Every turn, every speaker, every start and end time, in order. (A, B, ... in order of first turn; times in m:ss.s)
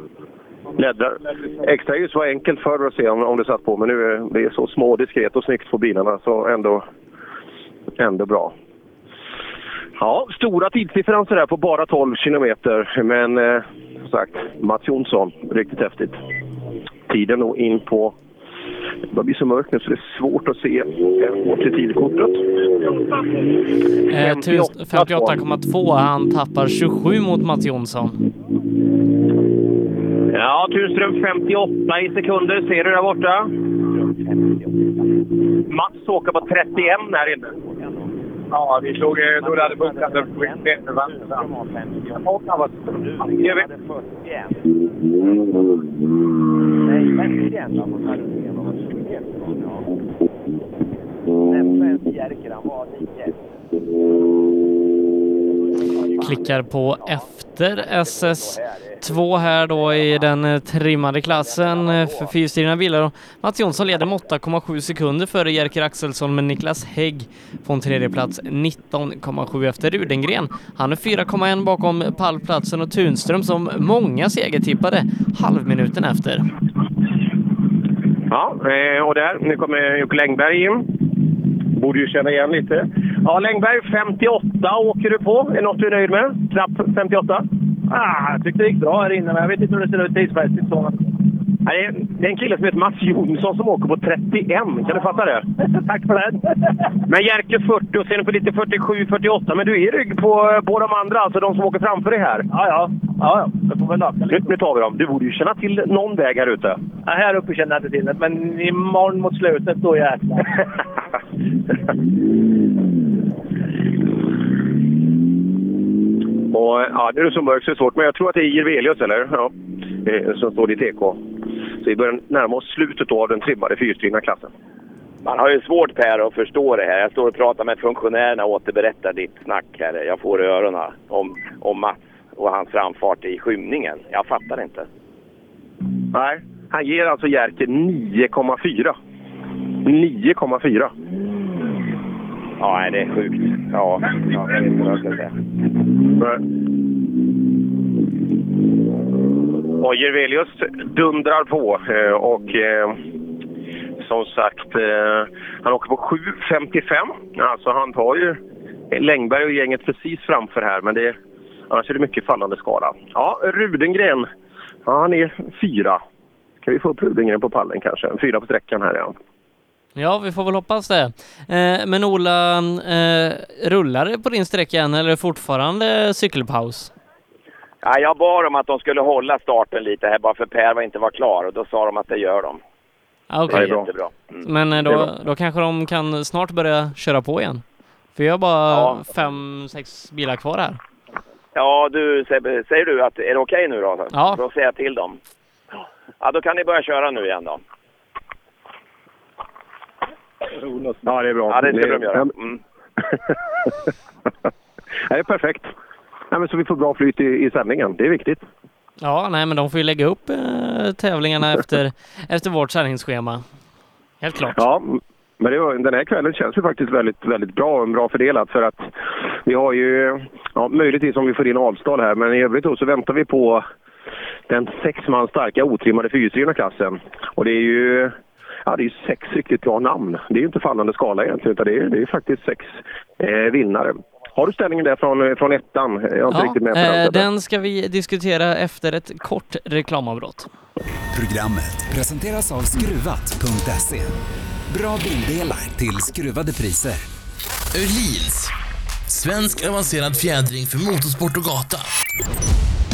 0:00.8-0:06.9 A
0:08.0-0:08.6 A
0:10.0-0:16.2 A
0:17.1-0:18.2 A
0:19.1-0:22.5 A
0:24.1-0:28.2 B
0:24.2-0:25.4 A
0:30.3-0:33.5 A
0:33.9-0:35.2 C
0:35.7-0:37.5 A
0:36.7-0:38.1 C
0:39.3-0:45.4 C
0:46.8-0:50.0 C
0:50.8-0:53.5 C
0:55.9-0:56.4 C
0:56.2-1:16.4 B
0:57.0-1:00.1 C
1:01.2-1:02.4 C
1:04.0-1:04.2 C
1:18.3-1:20.9 A
1:21.8-1:27.4 A
1:28.4-1:30.6 D
1:31.6-1:35.5 A
1:37.1-1:42.5 A
1:44.3-1:46.8 A
1:56.5-1:59.5 A
2:00.0-2:01.2 A
2:01.8-2:04.5 A
2:05.2-2:14.9 C
2:16.1-2:19.0 A
2:19.8-2:20.9 A
2:22.6-2:25.3 C
2:29.8-2:33.0 A
2:34.0-2:38.4 A
2:38.9-2:41.2 A
2:41.7-2:44.3 A
2:44.9-2:46.0 A
2:46.6-2:49.2 A
2:50.0-2:56.9 B
2:57.8-3:02.6 C
3:03.3-3:03.8 B
3:03.5-3:04.5 C
3:03.5-3:03.9 A
3:04.4-3:07.6 B
3:08.2-3:10.8 B
3:08.7-3:09.0 C
3:11.5-3:15.2 C
3:14.1-3:14.4 B
3:16.2-3:17.6 C
3:21.0-3:22.3 A
3:21.5-3:22.6 C
3:25.1-3:25.7 A
3:26.3-3:28.4 A
3:29.0-3:33.4 B
3:34.2-3:34.6 B
3:34.6-3:38.9 A
3:39.5-3:43.7 A
3:44.5-3:48.2 A
3:48.7-3:57.3 A
3:56.3-4:00.5 B
4:01.1-4:04.2 E
4:04.7-4:07.1 E
4:07.7-4:08.5 F
4:09.1-4:11.9 F